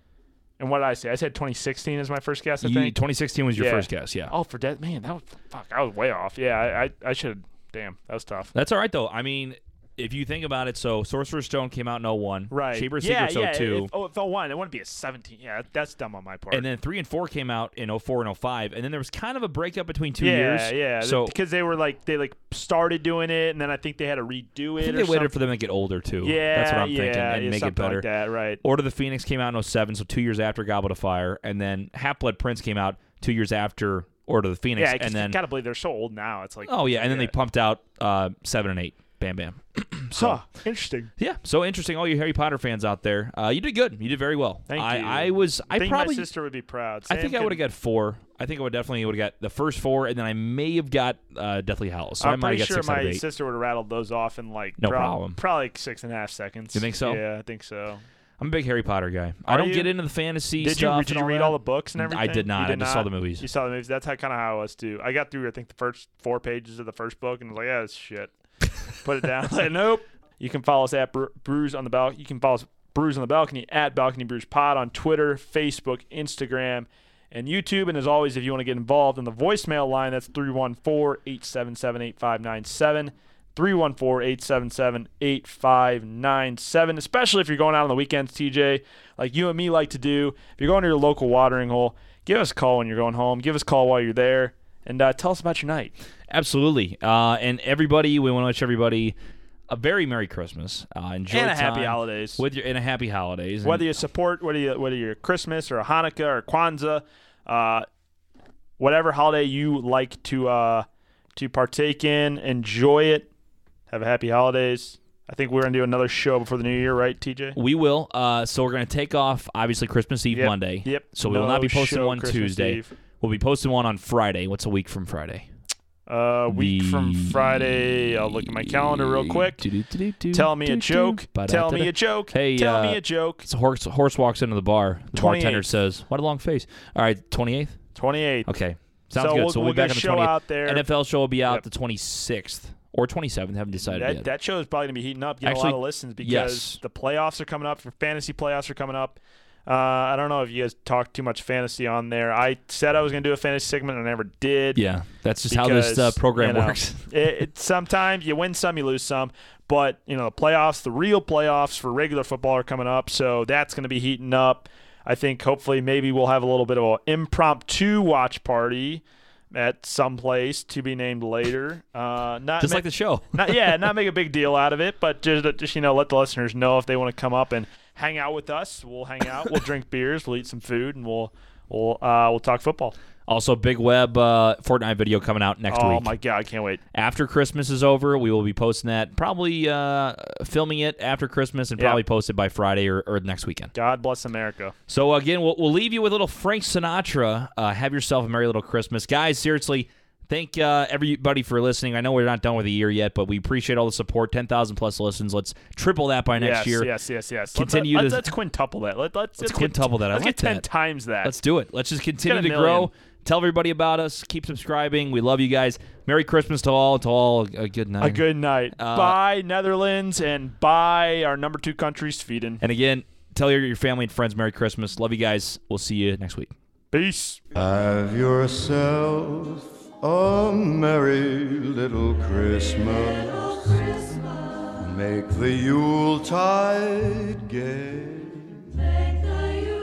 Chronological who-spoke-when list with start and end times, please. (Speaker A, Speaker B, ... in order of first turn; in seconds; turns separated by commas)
Speaker A: 0.6-3.0, Speaker B: 2.6-4.3, Speaker A: 3.5-8.5, Speaker B: 8.5-13.9, Speaker A: 12.5-16.7, Speaker B: 16.5-21.3, Speaker A: 20.2-25.3, Speaker B: 24.8-28.1, Speaker A: 26.2-28.6, Speaker B: 28.6-35.4, Speaker A: 34.8-37.3, Speaker B: 36.6-40.4, Speaker A: 40.1-41.1, Speaker B: 41.2-46.3, Speaker A: 44.7-47.6, Speaker B: 47.1-53.2, Speaker A: 52.2-58.0, Speaker B: 54.8-55.4, Speaker B: 56.7-57.2, Speaker B: 58.4-63.5, Speaker A: 59.5-59.9, Speaker A: 60.6-68.3, Speaker A: 69.0-95.9, Speaker B: 96.3-99.2, Speaker B: 99.7-104.0, Speaker A: 101.3-102.4, Speaker A: 103.6-107.9, Speaker A: 108.8-113.3, Speaker A: 113.9-117.6, Speaker B: 117.5-125.5, Speaker A: 120.3-122.9, Speaker A: 126.1-129.6, Speaker B: 126.5-137.8, Speaker A: 130.3-133.4, Speaker A: 135.1-135.7, Speaker A: 137.9-138.5, Speaker B: 138.4-144.3, Speaker A: 139.1-140.9, Speaker A: 143.8-154.8, Speaker B: 145.4-146.8, Speaker B: 154.7-157.1, Speaker A: 155.5-182.9, Speaker B: 172.6-173.6, Speaker B: 183.3-186.2, Speaker A: 185.7-186.8, Speaker B: 186.9-193.7, Speaker A: 191.8-192.0, Speaker A: 193.7-194.7, Speaker B: 194.9-206.9, Speaker A: 206.4-211.3, Speaker B: 207.5-208.3, Speaker B: 209.4-210.7, Speaker B: 211.2-219.2, Speaker A: 212.2-212.9, Speaker A: 218.0-222.6, Speaker B: 222.6-226.5, Speaker A: 226.9-227.4, Speaker C: 227.6-234.2, Speaker C: 234.7-239.0